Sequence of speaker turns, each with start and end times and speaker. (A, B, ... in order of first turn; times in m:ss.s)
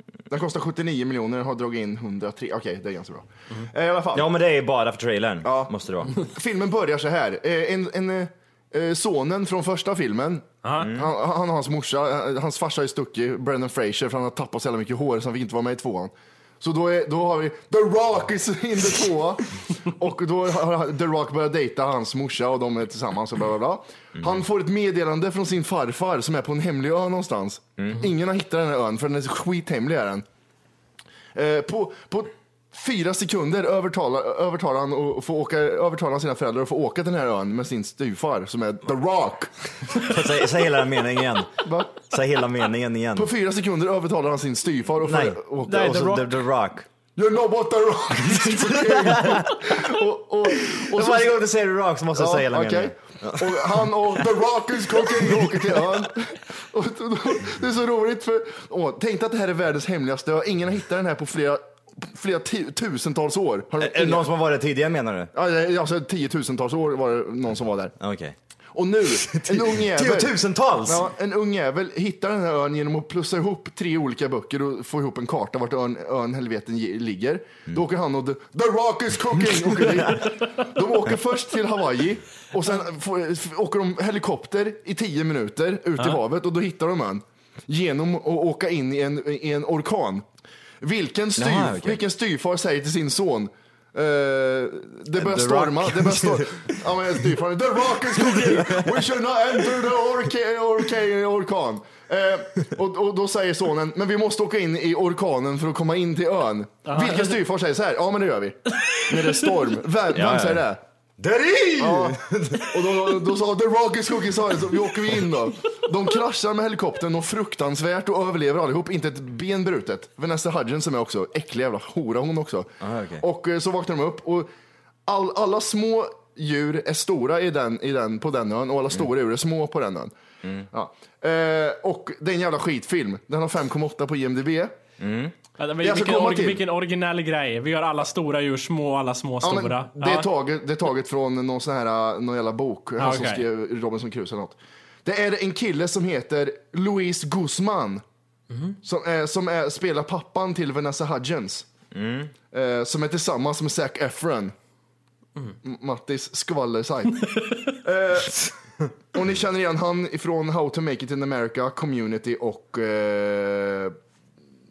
0:00.3-0:04.3 A
0:04.1-0:06.2 B
0:05.4-0:30.2 A
0:10.6-0:10.9 C
0:10.8-0:11.1 B
0:27.8-0:28.0 B
0:31.3-0:39.5 A
0:40.0-0:43.3 B
0:41.6-0:41.9 A
0:43.1-0:45.9 A
0:45.0-0:46.9 B
0:45.6-0:46.4 C
0:47.2-0:51.5 A
0:48.3-0:49.9 B
0:50.5-0:54.3 B
0:52.1-1:04.2 A
1:03.8-1:05.3 B
1:05.3-1:07.9 A
1:08.0-1:08.4 B
1:08.7-1:30.2 A
1:09.0-1:11.1 B
1:30.8-1:50.8 A
1:31.4-1:32.0 B
1:35.2-1:36.8 B
1:38.2-1:38.9 B
1:46.9-1:47.3 C
1:50.1-1:50.6 B
1:51.2-1:52.8 B
1:51.8-2:04.5 A
2:02.8-2:03.2 B
2:05.0-2:10.1 A
2:10.7-2:14.8 A
2:15.0-2:15.3 B
2:15.6-2:20.3 C
2:15.8-2:16.6 A
2:19.4-2:28.0 A
2:23.0-2:23.4 C
2:28.5-2:28.8 C
2:28.8-2:31.7 A
2:31.9-2:32.3 B
2:32.5-2:34.5 A
2:35.6-2:38.5 A
2:39.1-2:44.0 A